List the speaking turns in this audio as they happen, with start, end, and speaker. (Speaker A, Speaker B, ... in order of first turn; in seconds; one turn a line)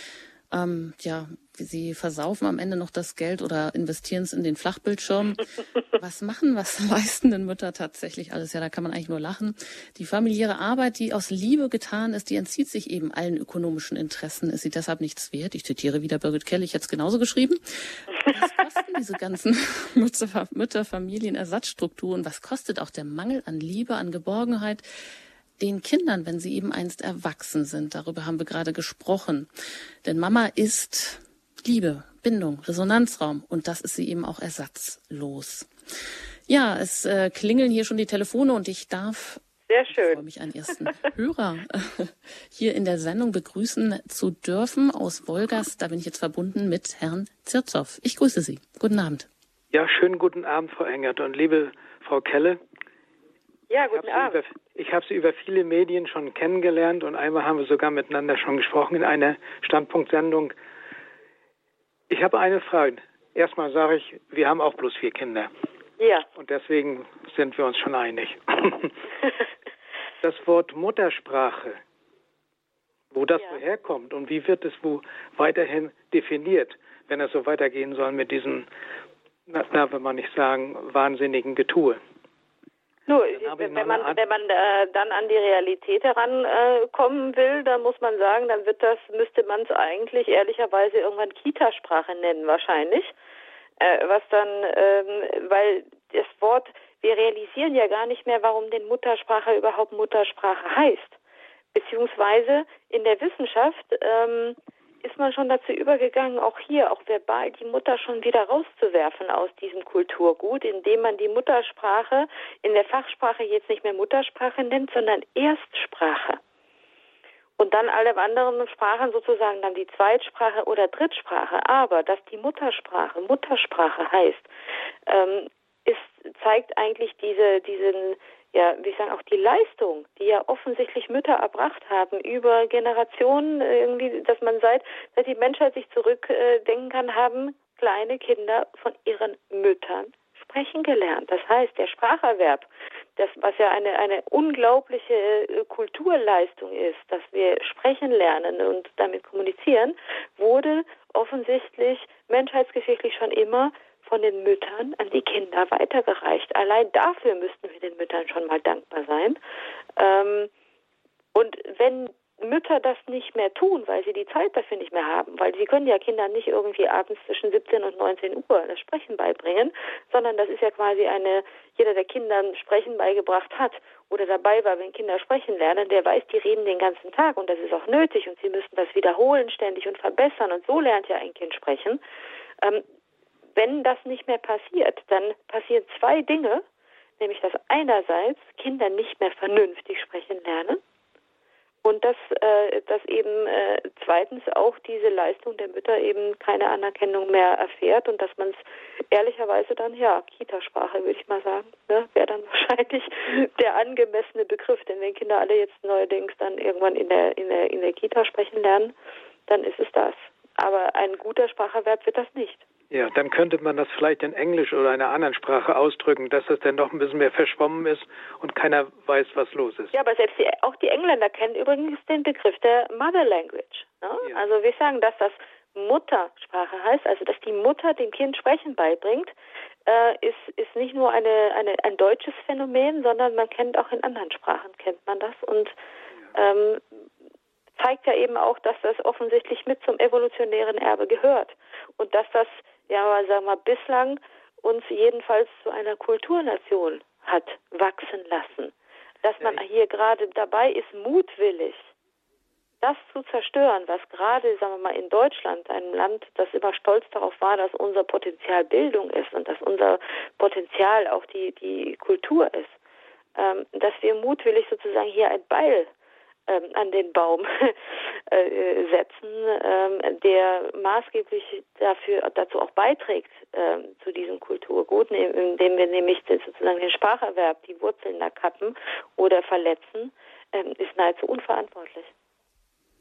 Speaker A: 0.5-24.8
Speaker A: 25.6-29.5
Speaker A: 30.1-35.7
Speaker A: 36.5-49.3
Speaker B: 39.7-40.2
Speaker C: 49.7-52.6
Speaker B: 53.7-54.4
Speaker C: 53.9-60.5
Speaker C: 62.1-65.5
Speaker B: 66.0-66.3
Speaker C: 66.4-68.9
Speaker C: 70.2-71.8
Speaker C: 73.1-78.7
Speaker C: 79.5-82.0
Speaker B: 83.1-93.2
Speaker C: 83.3-84.2
Speaker B: 93.8-101.2
Speaker B: 101.7-116.4
Speaker B: 117.6-124.5
Speaker B: 125.1-159.4
Speaker B: 160.0-160.5
Speaker B: 161.3-182.0
Speaker B: 183.6-186.6
Speaker B: 187.2-190.8
Speaker B: 191.8-208.9
Speaker B: 209.5-212.6
Speaker C: 212.9-219.9
Speaker B: 219.9-229.3
Speaker B: 229.9-235.8
Speaker B: 236.3-236.8
Speaker B: 237.8-251.9
Speaker B: 252.8-262.8
Speaker B: 263.4-265.9
Speaker B: 266.5-267.8
Speaker B: 268.3-282.1